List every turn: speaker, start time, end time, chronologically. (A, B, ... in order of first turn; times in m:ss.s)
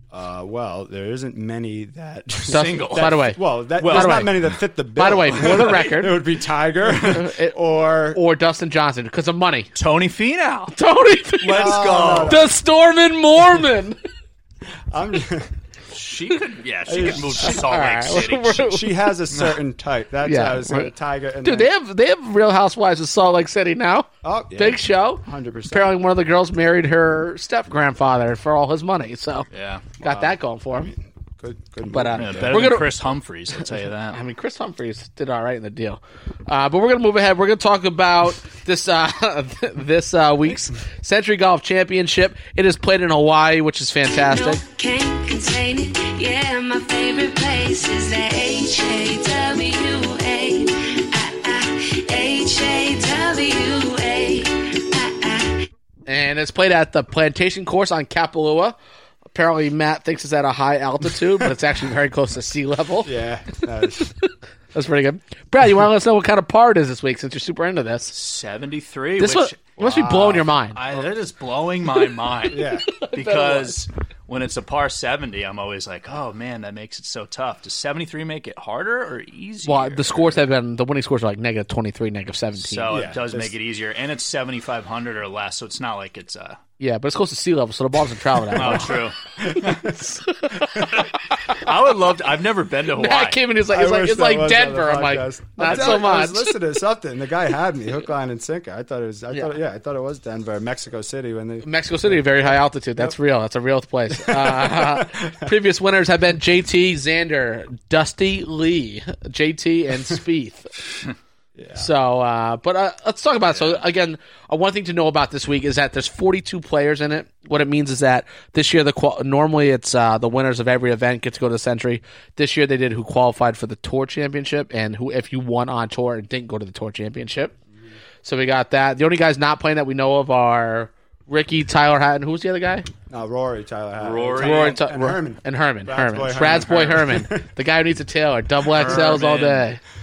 0:00.1-0:08.2 A
0:02.4-0:03.2 B
0:02.5-0:04.3 C
0:03.8-0:04.3 B
0:05.0-0:06.2 C
0:06.8-0:07.6 C
0:08.1-0:09.7 C
0:09.8-0:10.7 B
0:10.7-0:14.0 C
0:11.4-0:12.5 B
0:11.5-0:12.5 A
0:14.9-0:15.5 A
0:15.9-0:18.7 B
0:16.8-0:17.7 A
0:17.4-0:18.9 C
0:18.6-0:21.7 A
0:20.2-0:20.9 C
0:21.4-0:29.5 C
0:24.2-0:26.0 A
0:29.5-0:29.8 B
0:30.0-0:30.9 C
0:30.0-0:32.8 A
0:31.9-0:32.8 C
0:32.2-0:34.2 B
0:34.1-0:44.6 C
0:44.1-0:55.7 D
0:56.1-0:58.8 C
0:59.3-1:03.1 C
1:03.0-1:04.1 A
1:04.7-1:08.1 C
1:08.1-1:09.7 B
1:09.2-1:10.8 C
1:09.8-1:10.5 A
1:10.8-1:20.4 B
1:12.5-1:12.9 A
1:12.9-1:13.8 C
1:19.6-1:23.0 C
1:22.6-1:26.6 B
1:22.9-1:23.5 A
1:26.8-1:28.9 C
1:28.5-1:29.8 B
1:28.5-1:30.0 A
1:29.7-1:31.6 C
1:30.9-1:33.4 B
1:32.9-1:36.5 C
1:33.7-1:43.2 A
1:41.6-1:50.7 C
1:44.1-1:45.5 A
1:51.6-1:51.9 A
1:51.8-2:07.5 C
1:53.5-1:53.8 B
2:08.2-2:12.9 C
2:13.1-2:17.5 A
2:14.0-2:14.8 B
2:14.4-2:19.8 C
2:18.7-2:19.7 B
2:18.8-2:19.2 A